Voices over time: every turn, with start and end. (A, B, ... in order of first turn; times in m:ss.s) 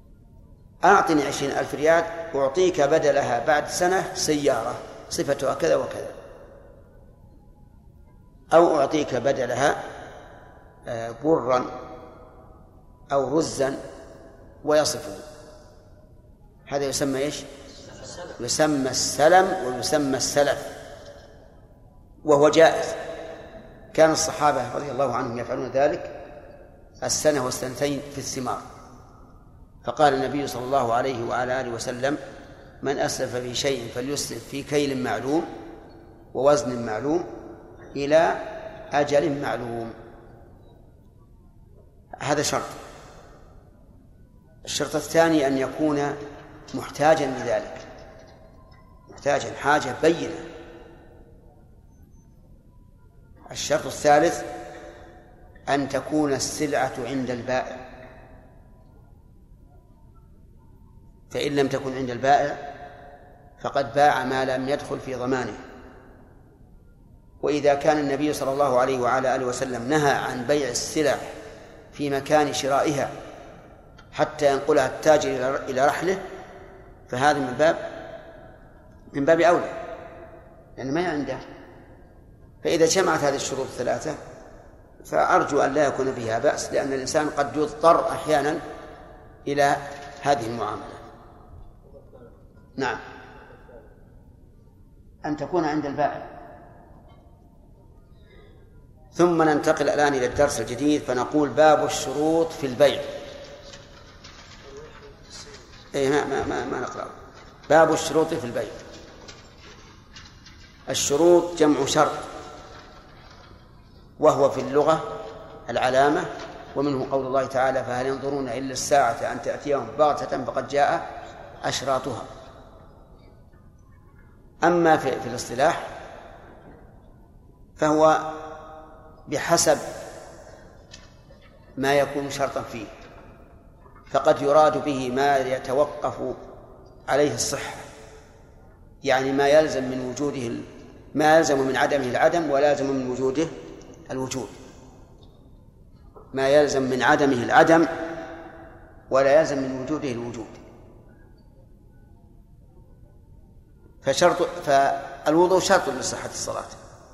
0:00.8-0:06.2 A
0:08.5-0:09.8 A
0:10.9-0:11.7 A
0:13.1-0:13.8 A
0:14.6-0:15.2 A
0:16.7-0:17.5 A
0:18.4-0:20.7 A
0:22.2-0:23.0 A
0:23.9-0:26.2 A
0:27.0-0:28.6 A
0:29.8-0:32.2 A
0:32.8-0:35.5 A
0:36.3-0:37.3 A
0:37.9-0:40.0 A
0:42.2-0:42.8 A
0:44.7-0:46.2 A
0:46.7-0:47.8 A
0:49.1-0:50.5 A
0:53.5-0:54.5 A
0:55.7-0:57.8 A
1:01.3-1:02.6 A
1:03.6-1:05.6 A
1:07.4-1:11.4 A
1:11.9-1:13.1 A
1:14.1-1:16.2 A
1:17.1-1:17.9 A
1:19.1-1:19.8 A
1:20.8-1:21.4 A
1:22.6-1:24.2 A
1:25.0-1:28.6 A
1:29.5-1:31.0 A
1:35.2-1:36.3 A
1:39.2-1:43.1 A
1:45.9-1:47.1 A
1:47.7-1:48.8 A
1:50.9-1:52.3 A
1:54.2-1:55.1 A
1:55.7-2:01.1 A
2:01.6-2:02.3 A
2:04.6-2:05.9 A
2:07.8-2:08.4 A
2:09.3-2:09.8 A
2:11.8-2:12.9 A
2:14.1-2:16.4 A
2:17.1-2:17.9 A
2:19.0-2:23.5 A
2:24.1-2:24.6 A
2:26.3-2:27.9 A
2:29.1-2:30.6 A
2:34.0-2:36.8 A